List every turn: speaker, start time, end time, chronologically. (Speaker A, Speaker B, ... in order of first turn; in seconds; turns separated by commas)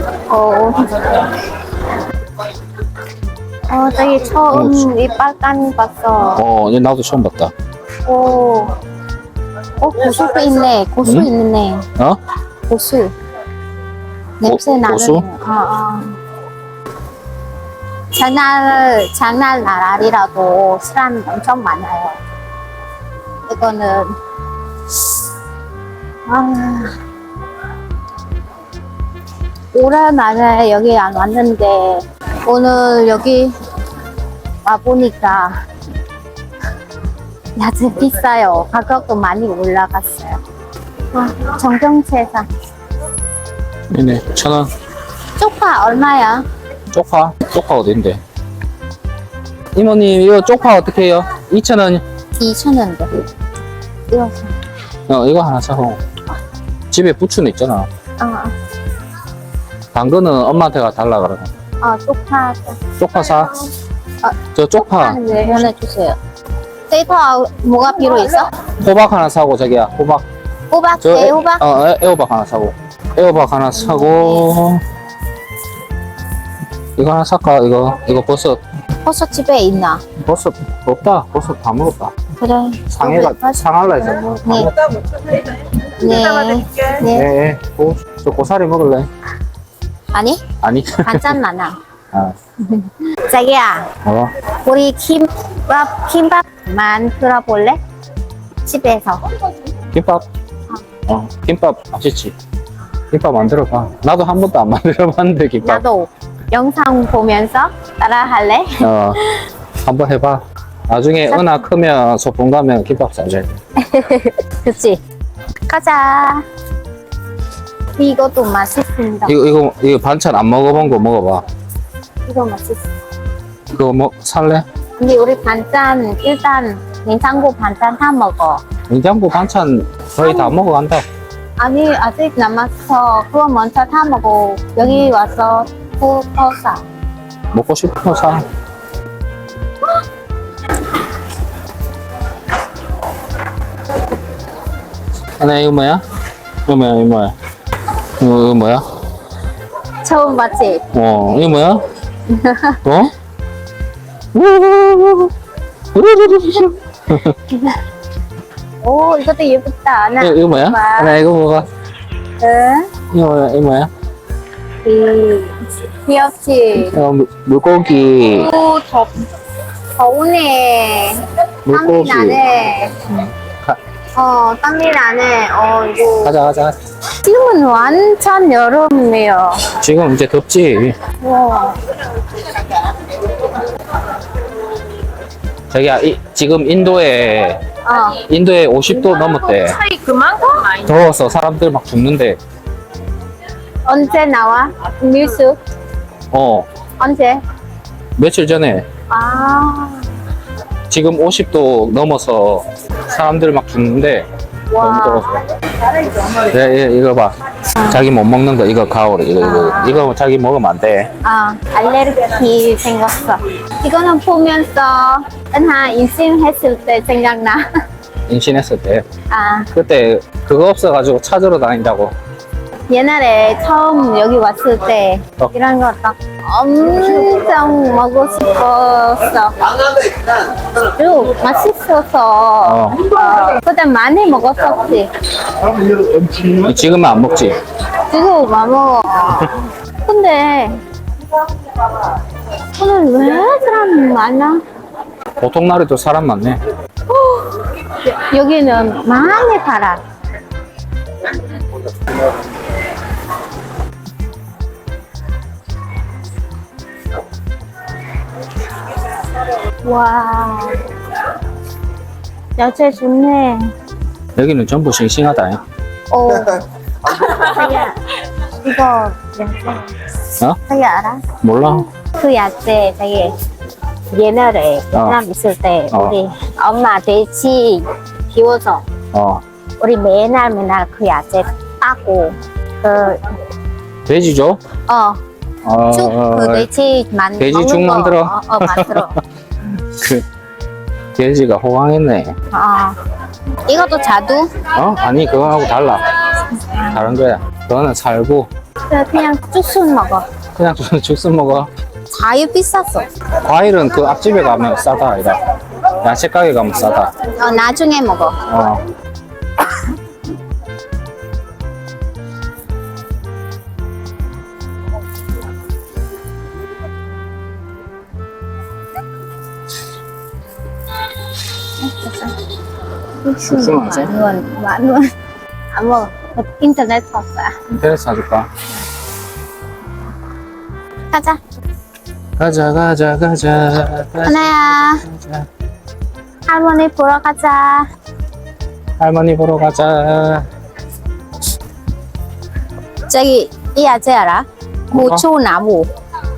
Speaker A: 0.3-1.3, Speaker A: 3.7-6.4, Speaker B: 4.5-4.9, Speaker B: 6.3-7.5, Speaker A: 8.1-8.7, Speaker A: 9.8-11.8, Speaker B: 11.0-11.3, Speaker A: 12.7-13.1, Speaker A: 14.4-16.1, Speaker B: 14.4-15.2, Speaker A: 18.1-22.2, Speaker A: 23.5-24.1, Speaker A: 26.3-26.9, Speaker A: 29.7-33.5, Speaker A: 34.6-35.5, Speaker A: 37.5-40.4, Speaker A: 41.1-42.5, Speaker B: 43.9-44.7, Speaker A: 45.4-46.5, Speaker B: 46.9-48.2, Speaker B: 49.7-52.0, Speaker A: 52.4-53.1, Speaker A: 54.1-54.6, Speaker B: 55.1-56.0, Speaker B: 56.9-57.9, Speaker A: 58.2-58.5, Speaker B: 59.9-61.5, Speaker A: 61.8-62.8, Speaker B: 63.0-63.6, Speaker A: 64.2-66.2, Speaker B: 64.5-65.2, Speaker A: 66.9-68.5, Speaker B: 68.8-70.2, Speaker A: 70.7-71.6, Speaker B: 71.0-74.8, Speaker A: 73.7-74.5, Speaker B: 77.0-78.6, Speaker A: 79.0-80.0, Speaker B: 80.2-82.1, Speaker A: 82.4-83.7, Speaker B: 82.9-84.8, Speaker A: 84.4-84.7, Speaker A: 85.8-87.3, Speaker B: 87.1-89.1, Speaker A: 90.1-90.4, Speaker B: 90.6-91.4, Speaker A: 91.0-91.8, Speaker A: 92.6-93.9, Speaker B: 94.0-94.3, Speaker A: 94.6-97.8, Speaker A: 98.6-99.3, Speaker B: 99.9-100.2, Speaker B: 101.1-102.3, Speaker B: 103.1-105.8, Speaker A: 105.6-109.4, Speaker B: 108.8-109.2, Speaker B: 109.8-113.6, Speaker A: 111.3-111.6, Speaker A: 113.8-115.0, Speaker A: 115.7-116.4, Speaker A: 118.0-119.3, Speaker B: 119.2-121.4, Speaker A: 122.2-122.9, Speaker B: 123.7-124.6, Speaker A: 125.0-128.6, Speaker B: 128.9-131.0, Speaker A: 130.2-130.5, Speaker A: 131.6-136.8, Speaker B: 137.5-138.4, Speaker B: 145.4-146.0, Speaker B: 146.7-147.3, Speaker B: 148.0-148.8, Speaker A: 150.0-150.8, Speaker B: 150.9-151.8, Speaker A: 152.3-152.8, Speaker B: 152.8-153.1, Speaker B: 154.3-155.3, Speaker B: 155.9-157.4, Speaker A: 157.5-157.8, Speaker A: 158.8-161.2, Speaker B: 160.2-161.7, Speaker A: 162.4-162.9, Speaker B: 163.1-163.9, Speaker A: 164.8-166.9, Speaker B: 166.8-168.5, Speaker A: 168.1-169.2, Speaker A: 169.9-173.0, Speaker B: 171.7-172.4, Speaker B: 173.1-173.8, Speaker A: 174.1-176.3, Speaker B: 176.2-176.8, Speaker A: 177.2-179.7, Speaker B: 179.8-180.9, Speaker A: 181.2-181.8, Speaker B: 185.7-187.6, Speaker A: 187.8-188.2, Speaker B: 188.2-189.8, Speaker A: 189.2-190.8, Speaker B: 190.8-192.4, Speaker A: 193.8-195.6, Speaker B: 196.3-196.7, Speaker A: 197.0-197.4, Speaker B: 198.2-198.8, Speaker A: 199.1-200.1, Speaker B: 200.9-204.3, Speaker A: 204.7-205.4, Speaker B: 204.8-205.4, Speaker B: 206.2-207.3, Speaker A: 207.8-208.0, Speaker B: 207.8-211.1, Speaker A: 209.4-210.1, Speaker A: 211.2-217.6, Speaker B: 218.3-219.1, Speaker A: 219.3-219.7, Speaker B: 219.7-222.1, Speaker A: 222.9-229.5, Speaker A: 230.3-235.1, Speaker B: 232.6-233.0, Speaker B: 236.2-237.6, Speaker A: 238.1-240.8, Speaker A: 242.8-244.6, Speaker B: 245.4-246.6, Speaker A: 247.1-250.0, Speaker A: 259.8-260.9, Speaker A: 262.6-263.7, Speaker B: 264.4-265.6, Speaker A: 266.1-268.0, Speaker A: 268.6-269.9, Speaker A: 270.7-271.2, Speaker B: 271.4-271.9, Speaker A: 272.1-273.3, Speaker A: 274.1-278.8, Speaker B: 274.9-275.2, Speaker B: 275.9-276.1, Speaker B: 279.1-279.4, Speaker A: 279.8-283.3, Speaker B: 284.1-284.6, Speaker A: 284.9-285.2, Speaker B: 285.6-286.7, Speaker A: 285.9-289.2, Speaker B: 287.4-289.2, Speaker B: 289.7-290.2, Speaker B: 291.1-292.3, Speaker A: 292.5-293.0, Speaker A: 293.7-294.6, Speaker B: 294.7-296.1, Speaker A: 296.5-297.1, Speaker B: 296.9-298.5, Speaker A: 298.9-300.2, Speaker B: 300.6-301.7, Speaker A: 302.1-303.1, Speaker B: 303.4-305.4, Speaker B: 305.9-307.1, Speaker A: 307.3-308.4, Speaker B: 308.4-308.8, Speaker A: 321.8-322.4, Speaker A: 323.2-325.1, Speaker B: 323.4-324.1, Speaker A: 325.7-327.7, Speaker B: 327.8-328.5, Speaker A: 331.1-331.4, Speaker B: 332.4-335.5, Speaker A: 334.2-335.0, Speaker A: 336.5-337.8, Speaker B: 339.0-340.4, Speaker A: 343.1-345.9, Speaker B: 344.9-345.2